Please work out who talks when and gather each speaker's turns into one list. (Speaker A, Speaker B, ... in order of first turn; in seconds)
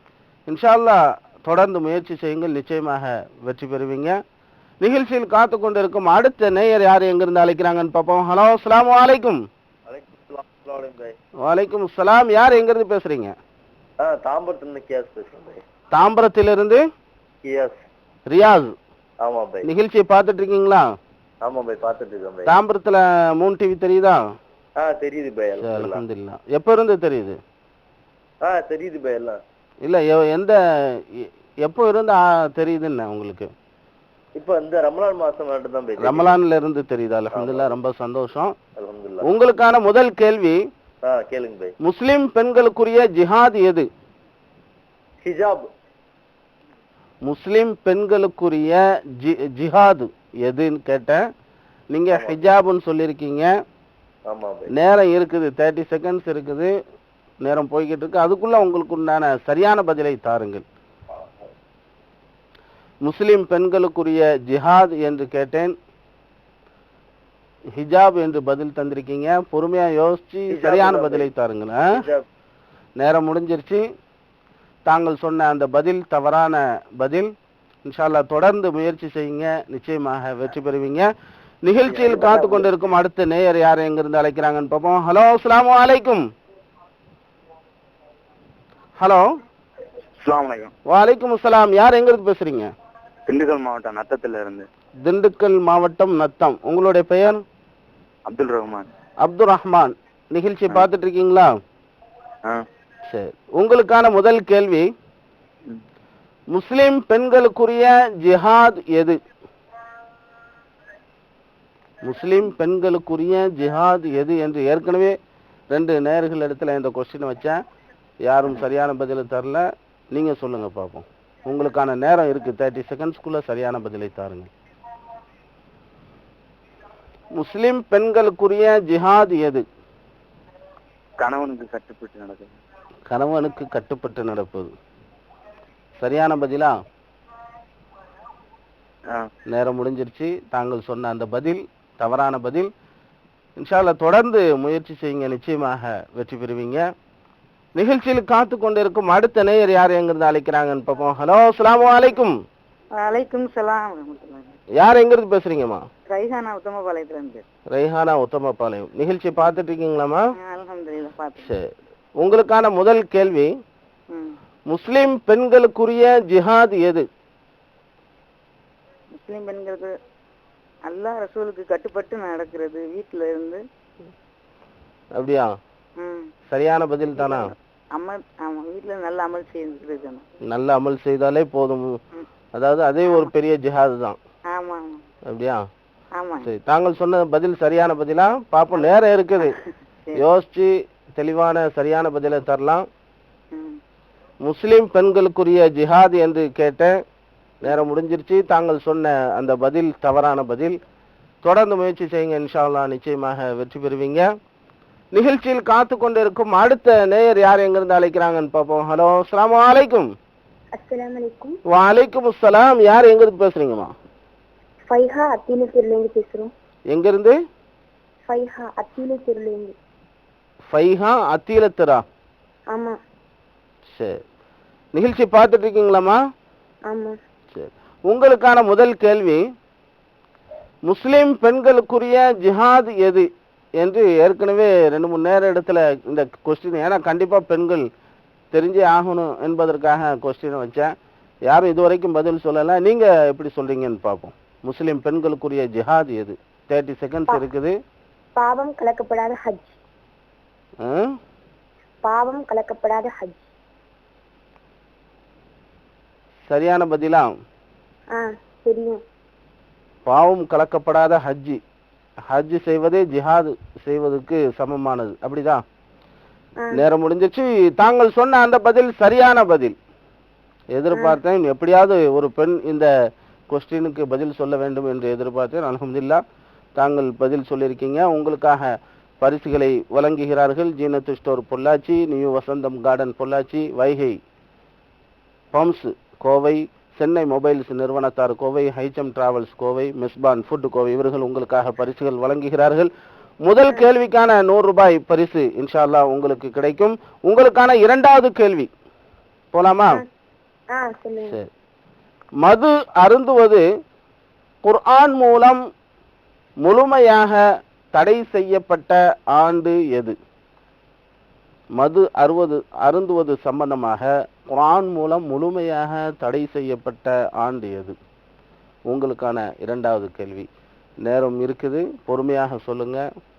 Speaker A: 0.5-4.2, 4.8-9.4, 11.4-13.3, 15.9-16.8, 18.3-18.7, 19.6-20.9, 22.5-24.2, 25.6-27.4, 29.8-33.5, 36.0-38.5, 39.2-40.6, 41.8-43.9, 47.2-51.2, 51.9-53.5, 54.7-56.7, 57.4-60.6, 63.0-65.7, 67.7-71.9, 73.0-73.8, 74.8-77.3, 77.8-81.1, 81.6-86.2, 89.0-89.2, 90.9-92.7, 95.0-97.4, 99.2-101.5, 103.1-104.9, 106.5-109.2, 112.0-115.2, 115.7-117.6, 118.2-124.5, 127.3-129.6, 133.1-134.7, 136.0-136.8, 139.5-142.7, 143.6-146.8, 147.8-152.3, 154.8-155.8, 157.7-160.2, 161.4-161.7, 162.2-163.5, 164.7-167.1, 175.2-175.5, 176.5-177.5, 180.5-182.0, 182.6-184.2, 185.3-185.7, 186.4-189.6, 190.2-192.8, 194.4-196.9, 197.6-200.8, 201.4-204.2, 205.1-210.1, 211.7-213.9, 216.9-217.3, 220.7-222.0, 223.9-224.2, 224.9-226.2, 227.5-229.4, 230.8-233.3, 233.8-237.8, 238.5-240.9, 241.5-247.7, 250.8-251.2, 256.5-257.3, 260.1-261.6, 262.3-265.6, 266.7-269.7, 270.7-272.9, 273.5-276.2, 276.8-284.2, 285.5-292.9, 293.4-298.7, 299.5-300.0, 302.4-303.6, 304.6-305.6, 306.6-307.4, 307.9-310.1, 311.8-317.9, 318.9-320.5, 321.0-323.0
Speaker B: 9.9-11.2, 14.0-15.6, 17.4-17.8, 19.2-19.7, 21.4-22.5, 24.8-26.0, 28.4-29.4, 34.3-36.4, 37.3-37.7, 38.8-39.2, 41.0-41.7, 45.2-45.6, 52.1-52.4, 54.3-54.7, 70.5-71.3, 71.9-72.2, 81.8-82.7
Speaker C: 90.2-90.7, 93.3-94.6, 98.3-98.9, 131.2-132.6
Speaker D: 152.9-154.6, 156.1-157.4, 160.4-161.5, 164.1-164.3, 169.2-169.9, 170.8-173.6, 176.0-176.3, 177.2-180.2, 183.0-183.3, 184.5-185.0, 186.1-186.5, 188.8-190.2, 193.5-193.8
Speaker E: 210.7-211.6, 214.9-216.5, 218.3-219.7, 226.9-227.1, 248.3-249.8, 252.0-253.4, 258.1-259.0, 300.7-301.4